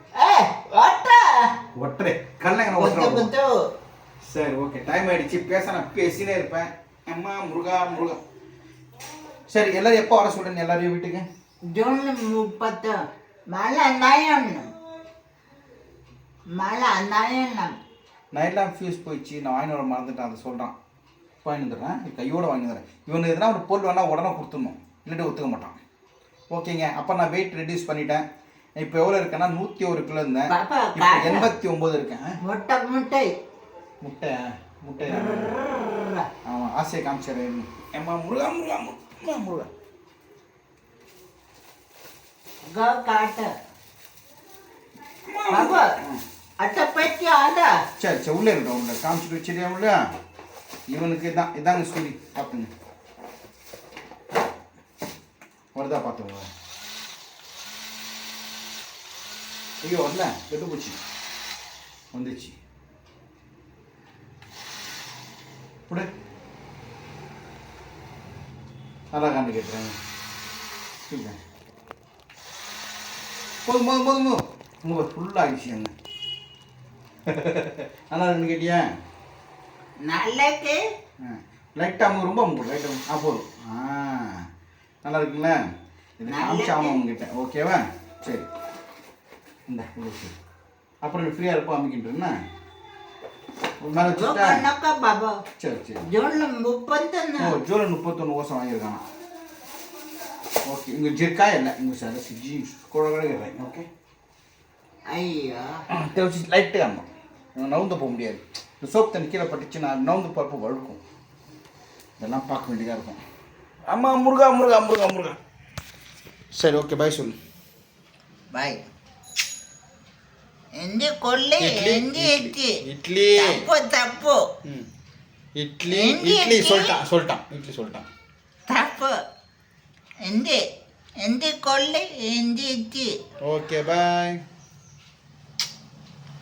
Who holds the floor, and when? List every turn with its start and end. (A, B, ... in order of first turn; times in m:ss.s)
0:00.2-0:01.5 A
0:01.8-0:03.3 B
0:02.8-0:03.5 A
0:04.2-0:08.2 B
0:09.5-0:11.3 B
0:11.7-0:13.0 A
0:13.5-0:14.7 A
0:16.6-0:17.8 A
0:18.3-0:20.7 B
0:21.4-0:25.8 B
0:26.5-0:28.2 B
0:28.8-0:32.4 B
0:30.5-0:31.5 A
0:32.4-0:33.3 A
0:34.0-0:35.6 B
0:35.6-0:36.3 A
0:36.5-0:39.7 B
0:42.8-0:43.5 A
0:45.3-0:46.2 B
0:45.5-0:45.9 A
0:46.6-0:47.7 A
0:48.0-0:50.0 B
0:50.9-0:52.7 B
0:55.8-0:56.5 B
0:59.8-1:01.0 B
1:02.1-1:02.6 B
1:09.1-1:10.0 B
1:11.1-1:11.4 B
1:13.6-1:15.9 B
1:17.3-1:18.8 B
1:20.1-1:20.8 A
1:21.2-1:24.4 B
1:25.0-1:25.6 B
1:26.2-1:28.5 B
1:26.3-1:27.0 A
1:29.7-1:30.3 B
1:31.0-1:32.3 B
1:33.8-1:34.6 B
1:34.1-1:35.4 A
1:35.6-1:36.0 B
1:36.1-1:37.6 A
1:37.4-1:39.0 B
1:40.7-1:43.9 B
1:45.1-1:45.8 A
1:45.9-1:51.0 B
1:52.2-1:53.2 B
1:53.9-1:55.4 B
1:56.5-1:57.4 B
1:58.5-1:58.8 A
2:00.8-2:02.8 A
2:01.6-2:03.6 B
2:03.4-2:04.4 A
2:05.6-2:08.1 B
2:05.9-2:07.0 A
2:08.7-2:09.2 A
2:10.3-2:10.6 A
2:11.2-2:13.1 A
2:13.4-2:14.4 B